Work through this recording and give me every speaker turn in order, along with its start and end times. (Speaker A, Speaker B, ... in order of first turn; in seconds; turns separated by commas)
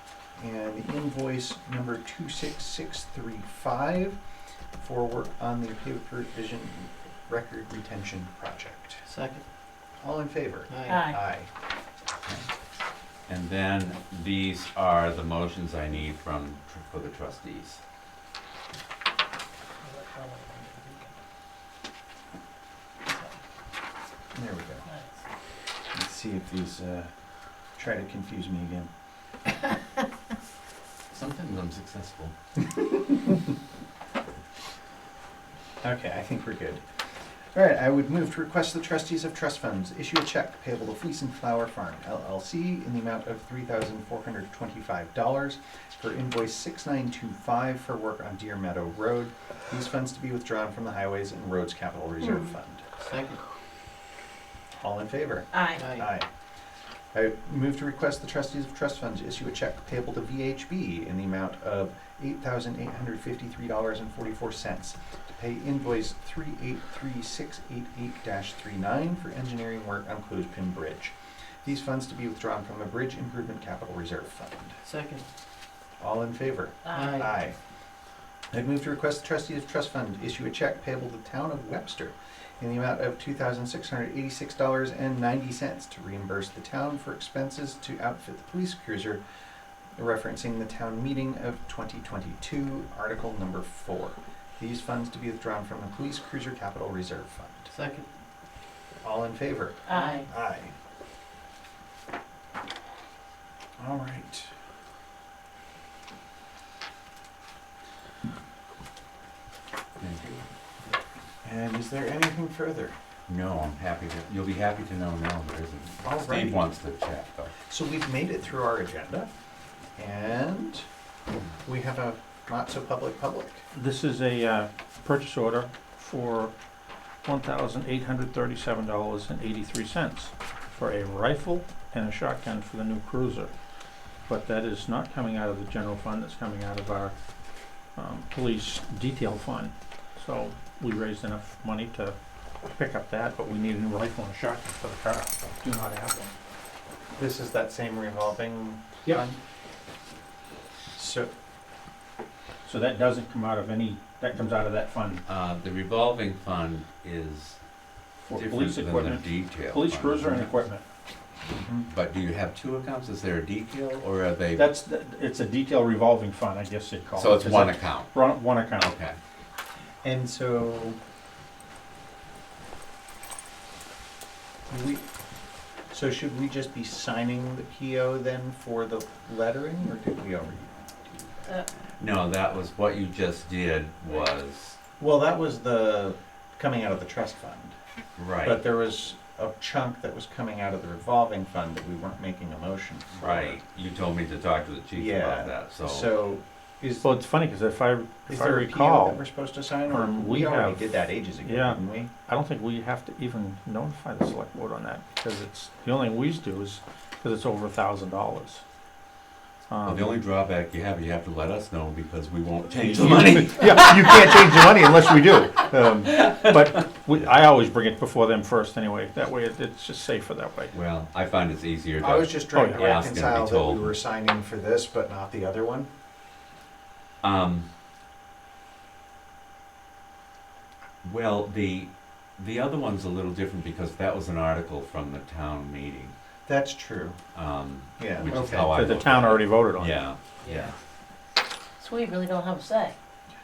Speaker A: 0.4-4.2, Speaker A: 4.8-9.0, Speaker B: 9.0-9.4, Speaker A: 10.0-11.5, Speaker B: 10.7-11.0, Speaker C: 10.9-11.2, Speaker D: 13.3-17.8, Speaker C: 19.9-21.1, Speaker A: 24.3-24.9, Speaker A: 25.9-27.1, Speaker A: 27.8-28.9, Speaker D: 31.1-32.3, Speaker A: 35.8-36.8, Speaker A: 37.5-52.8, Speaker B: 53.0-53.4, Speaker A: 54.8-56.3, Speaker C: 55.5-55.9, Speaker B: 55.7-56.1, Speaker A: 57.1-71.1, Speaker A: 71.6-74.8, Speaker B: 74.8-75.2, Speaker A: 76.0-77.6, Speaker C: 76.8-77.2, Speaker B: 76.9-77.3, Speaker A: 78.5-89.2, Speaker A: 90.0-97.7, Speaker B: 97.7-98.1, Speaker A: 99.0-100.7, Speaker C: 99.9-100.2, Speaker B: 99.9-100.2, Speaker A: 103.8-104.5, Speaker D: 110.0-110.4, Speaker A: 111.4-112.9, Speaker D: 113.3-117.5, Speaker A: 116.0-116.6, Speaker A: 117.7-119.3, Speaker A: 120.0-120.8, Speaker A: 121.6-123.6, Speaker E: 123.7-126.5, Speaker E: 127.2-133.5, Speaker E: 134.3-137.1, Speaker E: 137.9-142.1, Speaker E: 142.7-146.3, Speaker A: 147.2-149.4, Speaker A: 150.9-151.3, Speaker E: 152.6-155.2, Speaker D: 155.3-157.6, Speaker E: 158.2-160.8, Speaker D: 158.3-160.5, Speaker A: 161.6-161.9, Speaker D: 161.9-164.7, Speaker E: 164.5-168.9, Speaker D: 167.1-169.2, Speaker A: 170.0-171.0, Speaker A: 174.7-175.0, Speaker A: 175.9-181.5, Speaker D: 182.0-184.8, Speaker A: 185.0-187.7, Speaker D: 188.2-188.6, Speaker A: 188.4-193.6, Speaker D: 193.2-196.1, Speaker A: 194.9-197.1, Speaker E: 197.0-199.2, Speaker A: 198.2-202.1, Speaker E: 199.8-208.6, Speaker E: 209.7-210.1, Speaker D: 209.8-214.1, Speaker E: 212.8-220.7, Speaker A: 212.9-216.1, Speaker D: 220.7-223.9, Speaker A: 222.0-225.9, Speaker E: 222.5-222.9, Speaker D: 227.2-227.7, Speaker D: 231.0-236.1, Speaker A: 236.4-237.2, Speaker D: 237.3-240.7, Speaker A: 238.0-238.4, Speaker E: 238.2-240.0, Speaker C: 241.8-242.9